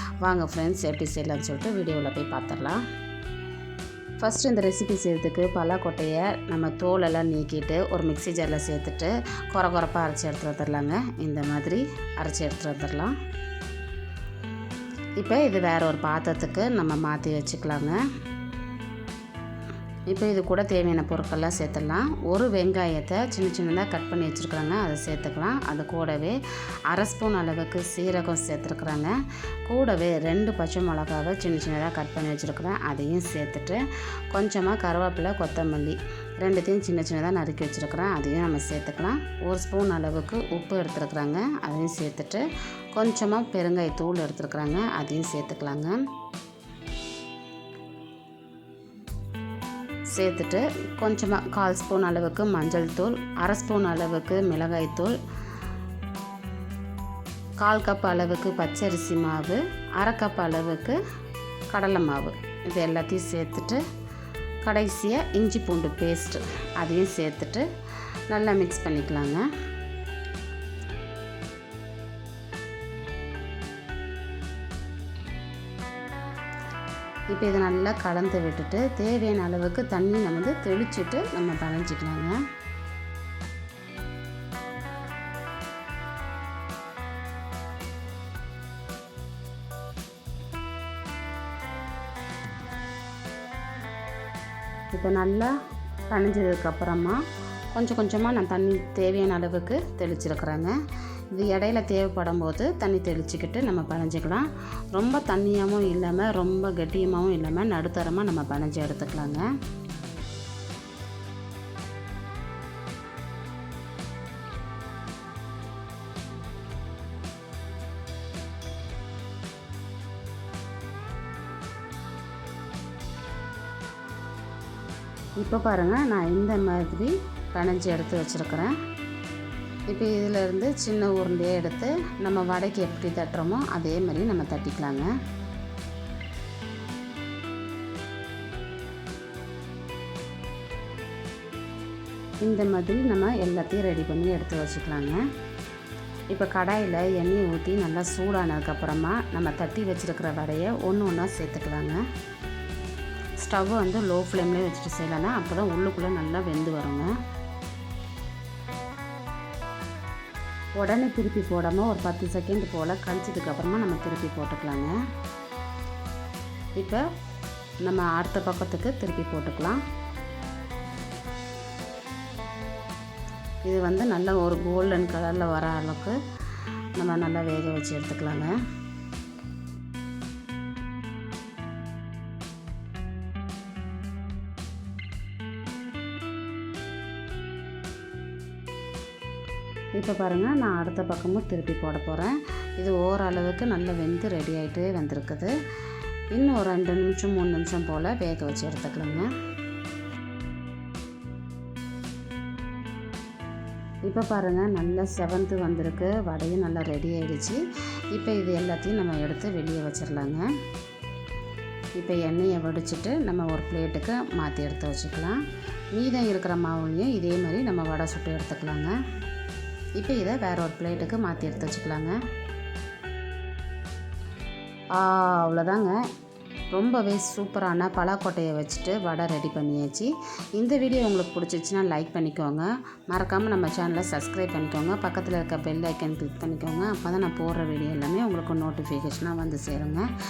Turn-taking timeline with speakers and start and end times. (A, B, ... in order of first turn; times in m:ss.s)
0:00.2-0:02.8 A
0:04.2-0:13.1 A
0:15.2-0:18.0 A
0:20.1-0:26.4 A
0:26.9-0:29.1 A
0:29.7-0:46.0 A
0:50.1-0:55.2 A
0:57.6-1:01.0 A
1:01.7-1:03.8 A
1:04.6-1:07.7 A
1:08.3-1:09.4 A
1:17.3-1:22.4 A
1:34.9-1:35.5 A
1:36.1-1:37.2 A
1:37.7-1:40.7 A
1:41.3-1:49.4 A
2:05.4-2:08.7 A
2:09.9-2:15.1 A
2:22.4-2:25.2 A
2:26.3-2:32.0 A
2:33.4-2:37.1 A
2:40.8-2:44.9 A
2:46.8-2:47.0 A
2:47.8-2:49.8 A
2:53.6-2:56.2 A
2:57.0-2:58.5 A
3:10.0-3:15.5 A
3:16.3-3:19.3 A
3:24.0-3:27.6 A
3:28.1-3:30.4 A
3:32.0-3:35.4 A
3:35.9-3:38.9 A
3:40.0-3:42.1 A
3:44.9-3:46.0 A
3:46.7-4:00.0 A